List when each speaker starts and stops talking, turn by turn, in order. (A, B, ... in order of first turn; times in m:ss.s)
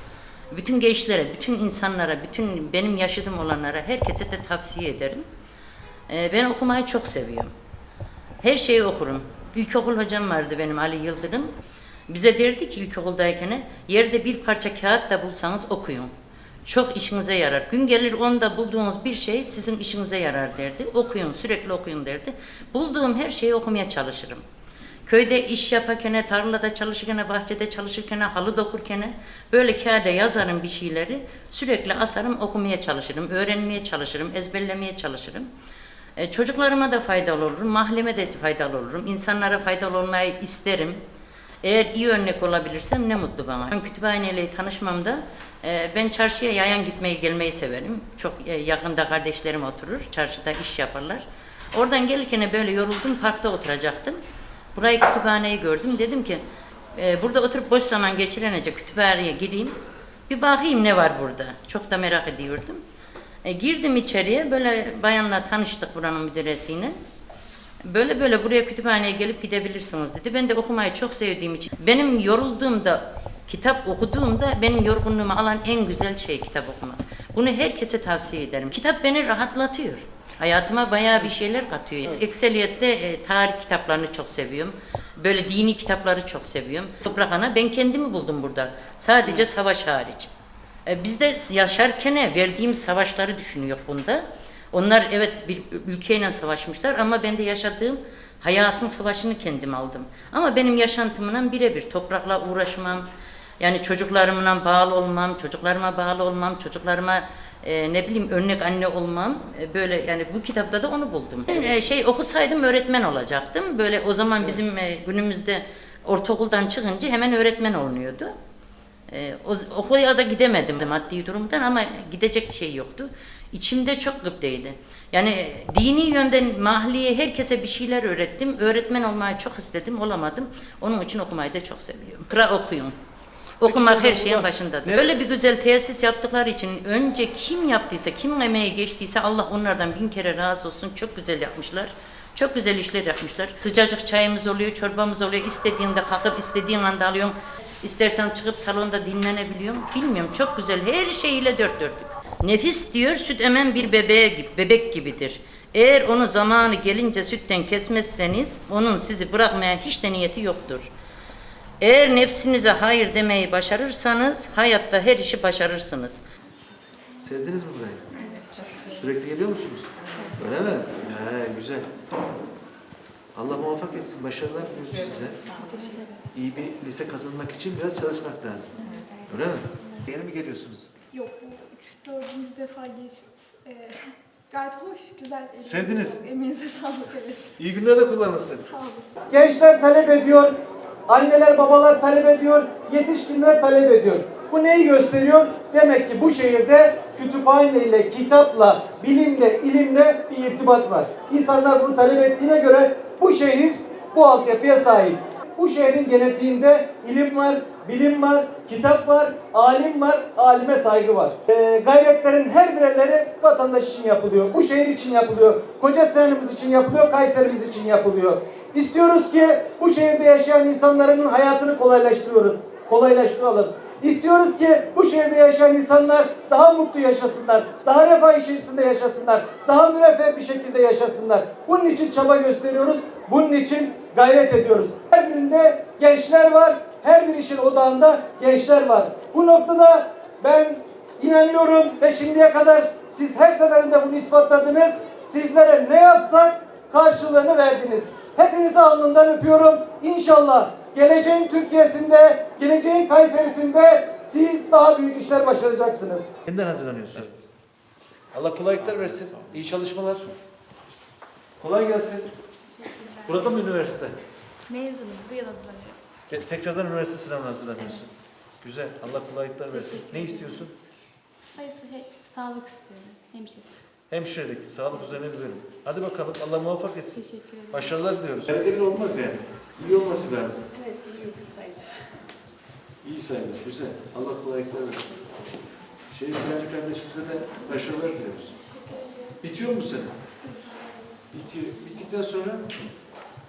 0:00.5-0:05.2 A
0:06.1-0:07.5 A
0:08.4-0:11.5 A
0:12.1-0:16.1 A
0:16.6-0:24.4 A
0:25.0-0:35.5 A
0:36.2-0:41.0 A
0:41.6-0:54.2 A
0:54.7-0:56.4 A
0:56.9-0:59.8 A
1:00.3-1:02.8 A
1:03.4-1:07.0 A
1:07.8-1:30.3 A
1:30.8-1:43.1 A
1:43.6-1:58.3 A
1:59.1-2:12.9 A
2:13.6-2:40.9 A
2:41.8-2:46.2 A
2:47.2-2:48.2 B
2:48.9-2:51.9 B
2:53.3-2:55.6 B
2:55.4-2:56.2 C
2:55.7-2:56.1 D
2:56.3-3:00.9 B
2:58.8-2:59.2 D
3:01.1-3:07.5 C
3:05.6-3:06.2 B
3:07.6-3:08.6 B
3:08.6-3:09.1 C
3:09.3-3:10.5 E
3:11.1-4:16.3 E
4:16.4-4:17.3 B
4:18.3-4:20.3 B
4:21.6-4:22.3 B
4:22.8-4:23.4 D
4:23.2-4:24.2 B
4:24.7-4:26.0 D
4:26.3-4:30.7 B
4:29.7-4:30.6 D
4:31.5-4:33.7 D
4:34.1-4:40.7 B
4:40.8-4:42.2 D
4:43.0-4:45.4 B
4:46.1-4:48.6 B
4:48.7-4:49.4 C
4:49.4-4:50.2 B
4:50.4-4:51.2 C
4:51.3-4:52.9 B